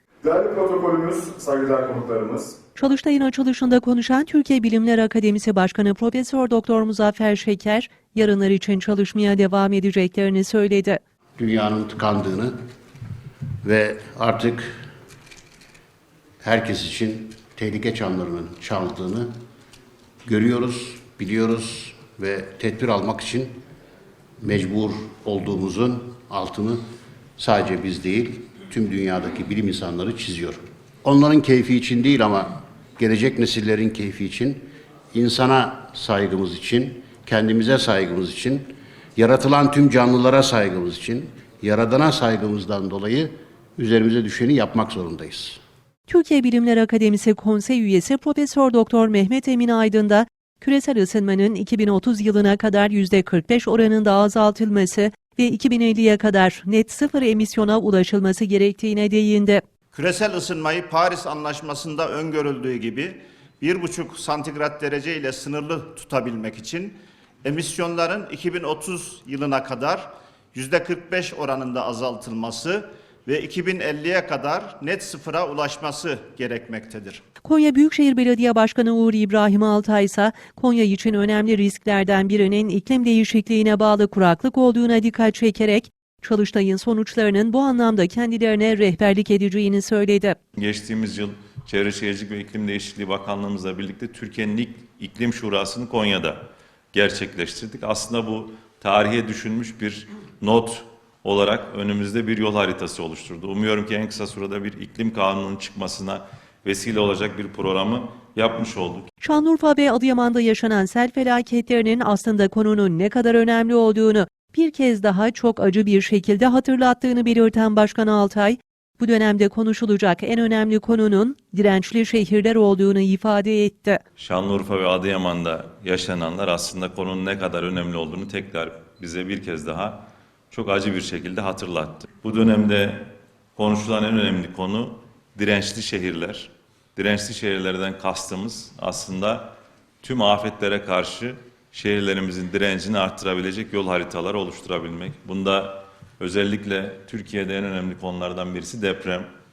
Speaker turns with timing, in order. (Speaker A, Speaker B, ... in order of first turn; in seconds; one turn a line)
Speaker A: 0.2-2.5
Speaker B: 2.8-11.0
Speaker C: 11.4-12.5
Speaker C: 13.6-14.7
Speaker C: 16.4-19.3
Speaker C: 20.2-23.6
Speaker C: 24.4-26.8
Speaker C: 27.4-45.6
Speaker B: 46.1-59.6
Speaker D: 59.9-77.2
Speaker B: 77.4-90.4
Speaker E: 90.6-109.1
Speaker B: 109.2-124.0
Speaker E: 124.2-149.3